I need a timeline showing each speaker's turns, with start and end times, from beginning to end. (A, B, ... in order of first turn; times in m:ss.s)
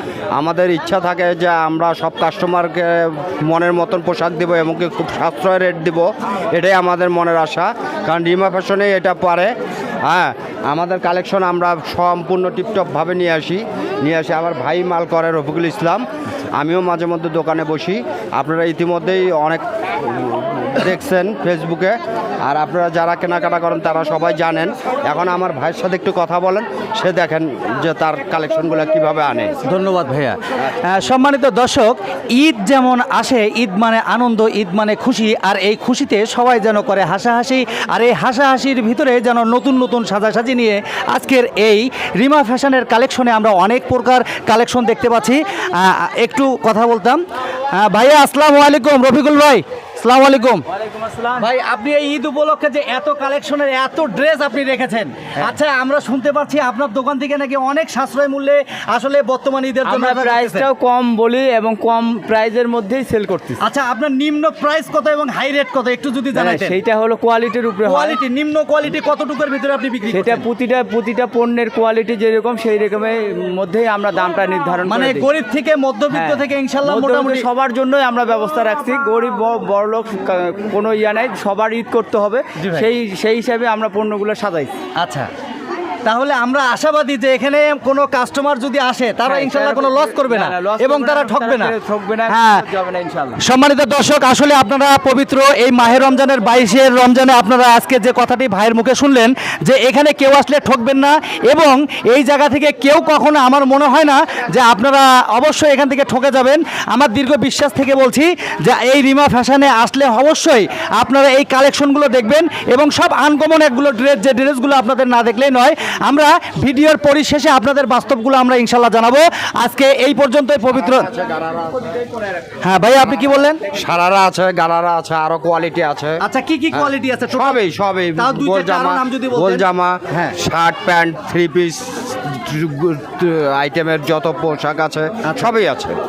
0:00.3-0:09.5 A
0:10.0-0:16.0 A
0:16.6-0:29.5 A
0:29.6-0:47.2 B
0:47.7-0:50.6 B
0:50.7-0:51.4 C
0:51.4-1:00.7 B
0:59.8-1:03.6 C
1:03.6-1:06.7 B
1:06.3-1:08.2 C
1:07.8-1:10.4 B
1:10.1-1:15.3 C
1:14.8-1:17.5 B
1:16.1-1:24.7 C
1:22.6-1:22.9 B
1:25.0-1:25.3 B
1:26.0-1:31.7 B
1:29.2-1:33.4 C
1:32.3-1:32.6 B
1:33.4-2:01.1 B
2:00.8-2:01.9 A
2:02.6-2:03.6 B
2:03.7-2:06.2 A
2:06.2-2:07.6 B
2:06.7-2:15.9 A
2:08.2-2:10.4 B
2:15.2-2:15.5 B